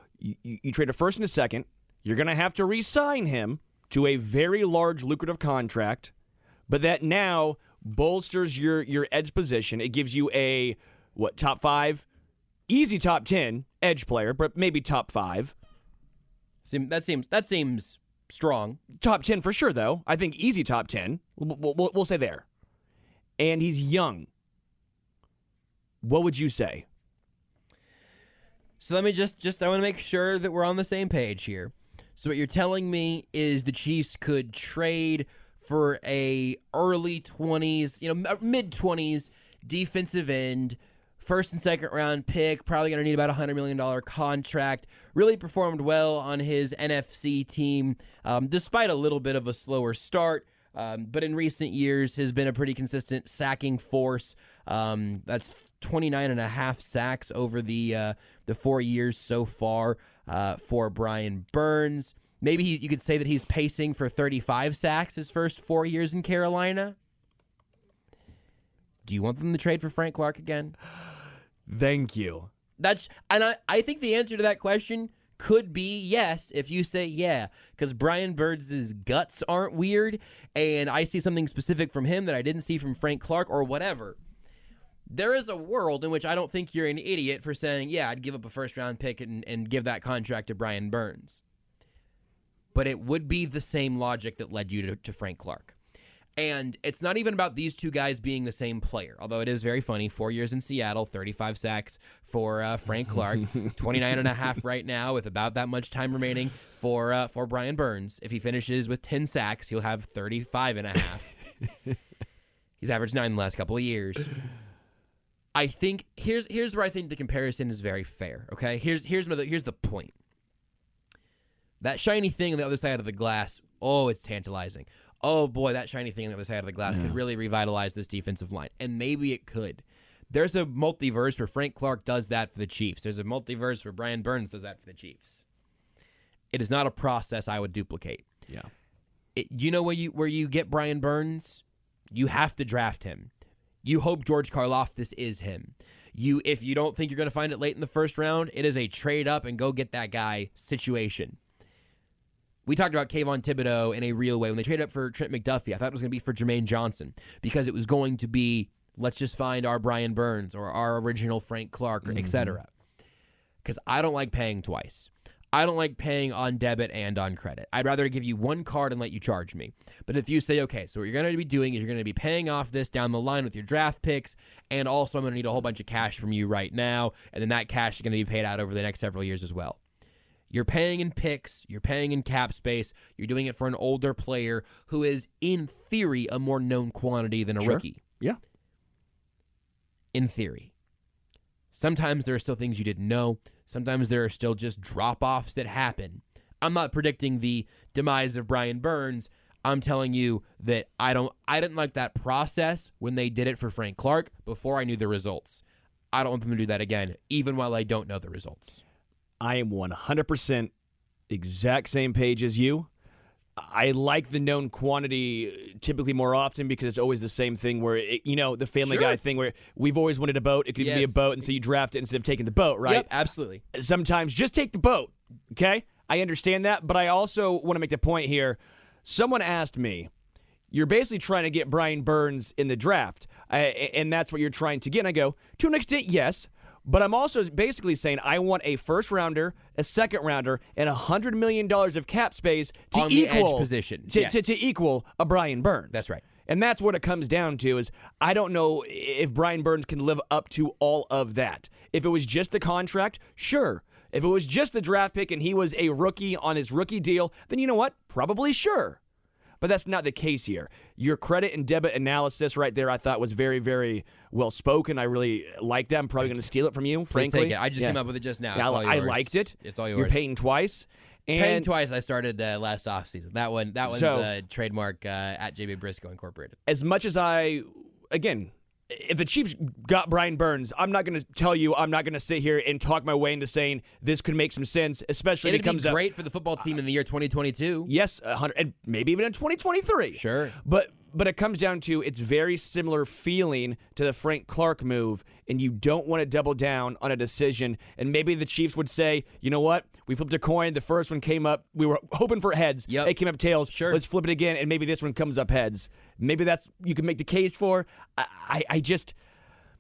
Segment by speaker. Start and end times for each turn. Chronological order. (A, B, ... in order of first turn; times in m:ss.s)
0:00.2-0:06.1 A
0:06.7-0:12.1 A
0:12.7-0:15.5 A
0:16.6-0:18.8 B
0:19.0-0:22.4 A
0:23.4-0:24.3 A
0:26.0-0:26.9 A
0:28.8-1:07.0 B
1:09.0-1:10.8 B
1:11.7-1:12.5 A
1:12.8-1:24.2 B
1:25.1-1:31.4 B
1:32.7-1:35.8 B
1:36.4-1:51.3 B
1:52.8-1:54.3 B
1:55.6-2:00.1 B
2:01.8-2:15.4 B
2:06.9-2:07.2 A
2:16.5-2:18.3 B
2:19.4-2:23.3 B
2:23.8-2:31.4 B
2:32.7-2:42.7 B
2:42.0-2:42.6 A
2:43.6-2:59.8 B
3:00.5-3:08.0 B
3:07.6-3:08.4 A
3:10.1-3:10.7 B
3:11.7-3:28.8 B
3:29.4-3:30.7 A
3:31.3-3:32.9 A
3:33.6-3:43.1 A
3:38.8-3:39.2 B
3:40.8-3:41.2 B
3:42.8-3:43.6 B
3:43.7-3:50.1 A
3:50.7-4:19.0 A
4:02.9-4:04.5 B
4:05.9-4:06.2 B
4:19.6-4:28.0 A
4:26.2-4:26.5 B
4:27.1-4:30.2 B
4:28.6-4:31.7 A
4:31.4-4:36.6 B
4:33.9-4:34.3 A
4:36.7-4:46.0 A
4:45.4-4:47.9 B
4:47.9-5:09.1 A
4:50.1-4:50.6 B
5:02.9-5:03.2 B
5:03.7-5:04.0 B